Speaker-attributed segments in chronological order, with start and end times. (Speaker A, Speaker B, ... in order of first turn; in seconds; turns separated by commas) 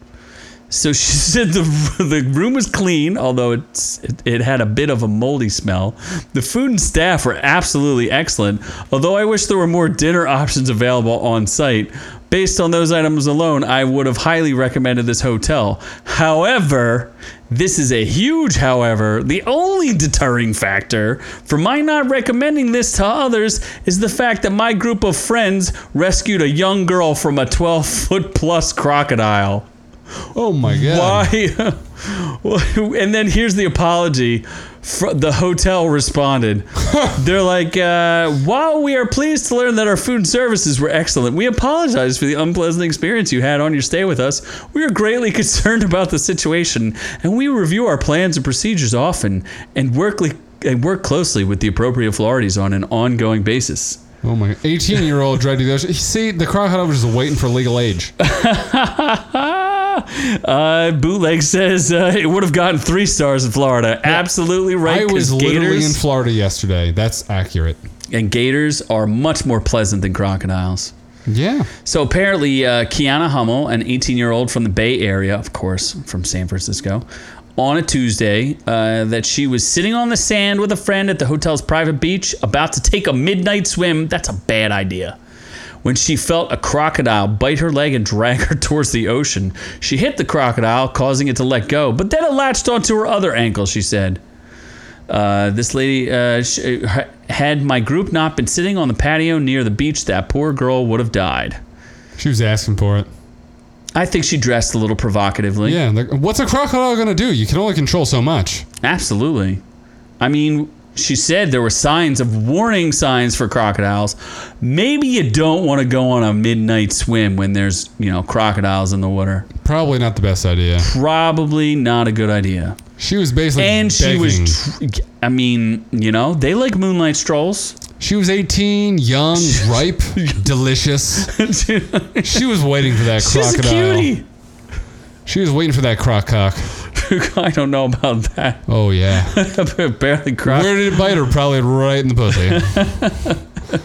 Speaker A: 0.7-29.7, Speaker B: 30.3-31.3, Speaker A: 30.7-54.0, Speaker B: 54.2-58.1, Speaker A: 58.2-66.0, Speaker B: 64.1-67.8, Speaker A: 68.1-70.9, Speaker B: 71.3-71.7, Speaker A: 71.8-77.0, Speaker A: 77.6-85.2, Speaker A: 85.8-94.2, Speaker A: 95.1-101.6, Speaker B: 102.2-103.1, Speaker A: 104.0-105.8, Speaker B: 105.6-108.7, Speaker A: 108.8-109.6, Speaker A: 110.2-119.5, Speaker B: 119.6-120.9, Speaker A: 120.8-122.8, Speaker B: 123.0-124.6, Speaker A: 123.6-127.8, Speaker B: 128.0-131.3, Speaker A: 129.4-130.4, Speaker A: 131.2-132.5, Speaker B: 132.2-134.2, Speaker A: 133.0-134.2, Speaker B: 135.3-136.7, Speaker A: 136.9-138.7, Speaker B: 138.7-139.4, Speaker A: 139.2-141.1, Speaker B: 140.4-142.8, Speaker A: 142.4-143.4